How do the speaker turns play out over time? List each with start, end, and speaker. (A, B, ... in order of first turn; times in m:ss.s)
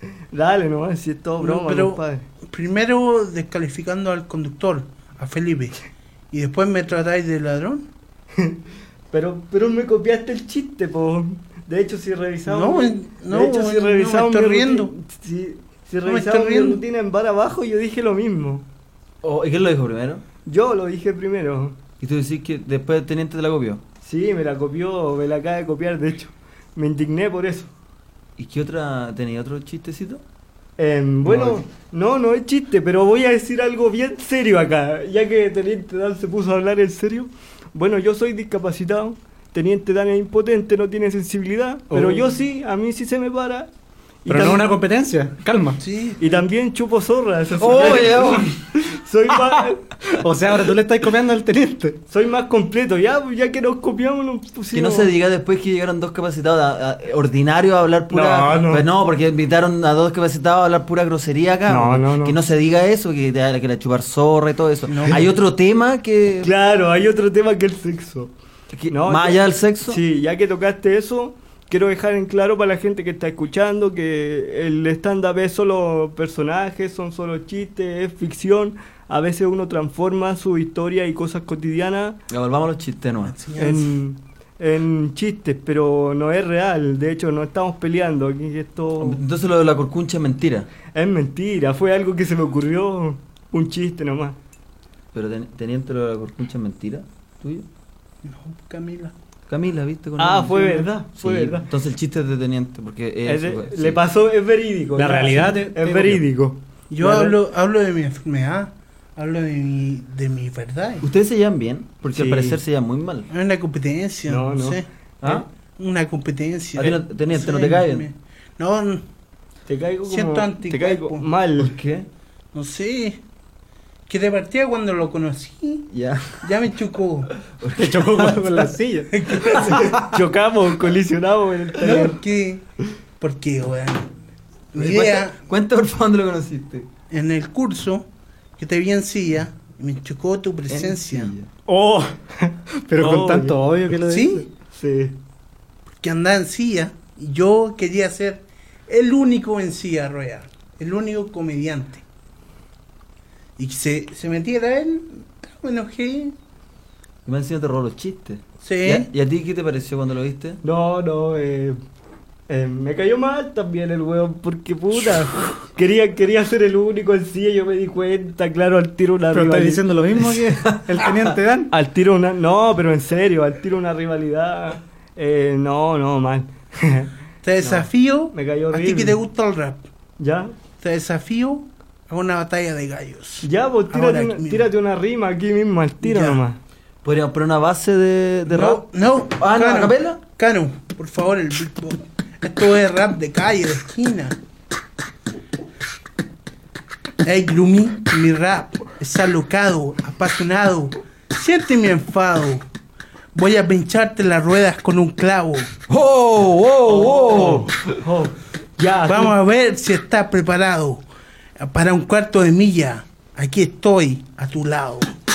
0:00.3-0:02.2 A
0:01.4-0:05.8 B
0:06.3-0:07.9 B
0:09.1-0:18.6 A
0:12.5-0:14.9 B
0:16.0-0:16.8 B
0:19.2-0:20.2 C
0:20.5-0:21.8 A
0:22.0-0:23.8 C
0:24.0-0:27.7 A
0:28.4-0:30.2 C
0:30.8-0:43.7 A
0:31.3-0:31.6 C
0:41.9-0:42.2 D
0:44.3-0:44.7 A
0:44.3-0:45.8 D
0:45.8-0:46.4 B
0:46.2-0:49.9 A
0:47.6-0:48.6 C
0:50.1-0:52.0 D
0:52.1-0:55.1 A
0:54.7-1:06.5 C
0:58.1-0:58.8 A
1:01.7-1:02.4 A
1:04.9-1:05.3 B
1:06.4-1:08.3 A
1:08.7-1:10.0 C
1:08.9-1:22.2 A
1:22.3-1:23.4 C
1:23.3-1:24.0 B
1:23.6-1:29.2 A
1:29.0-1:30.7 C
1:30.9-1:34.4 A
1:35.1-1:37.7 C
1:38.2-1:39.1 B
1:39.5-1:44.0 C
1:40.2-1:41.7 A
1:43.2-1:47.4 A
1:45.0-1:46.2 D
1:46.9-1:51.1 B
1:51.0-1:53.3 C
1:52.1-1:52.6 A
1:53.3-1:59.0 B
1:54.3-1:54.8 A
1:55.2-1:55.5 C
1:56.8-1:58.1 C
1:59.7-2:01.7 A
2:00.1-2:01.3 B
2:01.6-2:02.1 C
2:02.5-2:03.2 B
2:04.1-2:05.9 B
2:05.9-2:06.6 C
2:06.4-2:07.3 B
2:07.4-2:08.7 C
2:07.8-2:09.1 D
2:09.1-2:09.8 B
2:09.6-2:10.0 C
2:09.8-2:12.2 A
2:11.8-2:12.7 B
2:13.2-2:14.1 B
2:14.7-2:15.4 B
2:14.8-2:16.9 C
2:17.1-2:18.1 B
2:18.6-2:21.3 B
2:20.7-2:21.5 C
2:21.7-2:22.2 D
2:22.9-2:24.4 D
2:23.0-2:23.6 A
2:24.0-2:24.5 B
2:24.7-2:25.2 A
2:26.0-2:32.0 B
2:33.6-2:36.4 B
2:37.3-2:40.6 C
2:38.6-2:39.1 B
2:40.6-2:41.8 A
2:42.5-2:49.9 A
2:49.3-2:51.7 D
2:50.4-2:51.4 C
2:51.7-2:59.2 A
2:57.4-2:59.8 B
3:00.2-3:00.5 A
3:00.8-3:04.7 B
3:03.4-3:06.6 A
3:06.0-3:06.4 B
3:07.0-3:10.2 C
3:08.5-3:14.4 B
3:17.2-3:22.6 B
3:23.4-3:25.7 B
3:25.9-3:28.0 C
3:26.9-3:29.4 A
3:29.1-3:31.0 B
3:31.6-3:35.1 B